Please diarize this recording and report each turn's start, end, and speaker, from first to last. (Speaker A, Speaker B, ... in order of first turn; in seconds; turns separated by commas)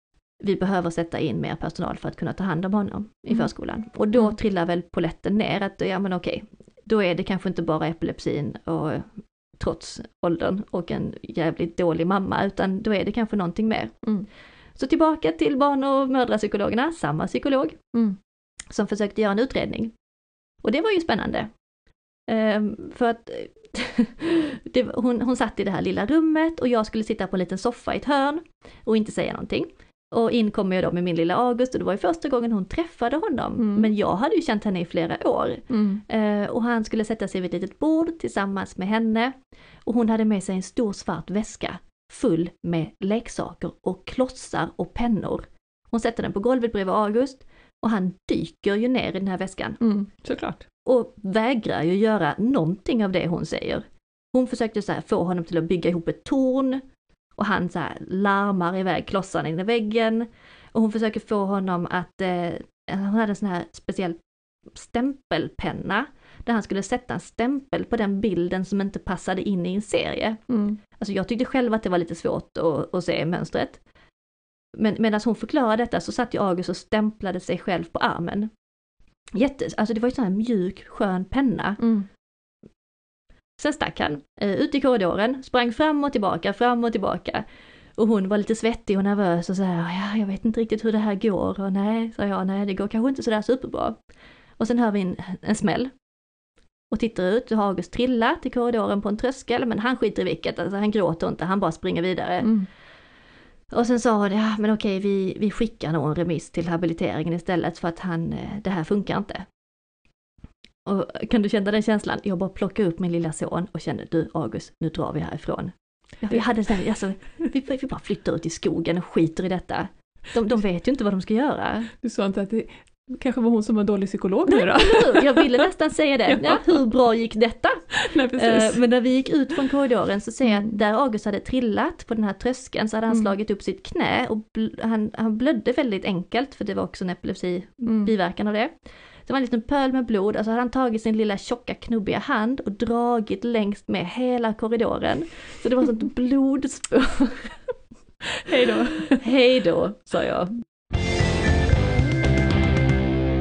Speaker A: 0.4-14.0, Speaker A: 14.7-17.8, Speaker A: 18.7-19.9, Speaker A: 20.6-21.5, Speaker A: 22.3-49.8, Speaker B: 33.6-33.9, Speaker B: 35.7-36.0, Speaker B: 49.8-50.6, Speaker A: 50.9-56.8, Speaker A: 57.4-64.2, Speaker A: 64.7-70.4, Speaker B: 70.5-70.8, Speaker A: 71.0-73.8, Speaker A: 74.8-78.5, Speaker A: 79.3-81.8, Speaker B: 81.8-82.1, Speaker A: 83.6-87.4, Speaker A: 88.0-94.0, Speaker A: 94.6-95.9, Speaker A: 96.9-102.5, Speaker B: 102.4-102.7, Speaker A: 103.7-109.5, Speaker A: 110.8-121.9, Speaker B: 116.3-116.7, Speaker B: 122.0-125.7, Speaker A: 124.5-138.7, Speaker B: 126.3-126.8, Speaker B: 127.9-128.8, Speaker B: 130.4-130.8, Speaker B: 137.8-138.1, Speaker A: 139.2-147.6, Speaker B: 148.4-149.2, Speaker A: 149.2-150.6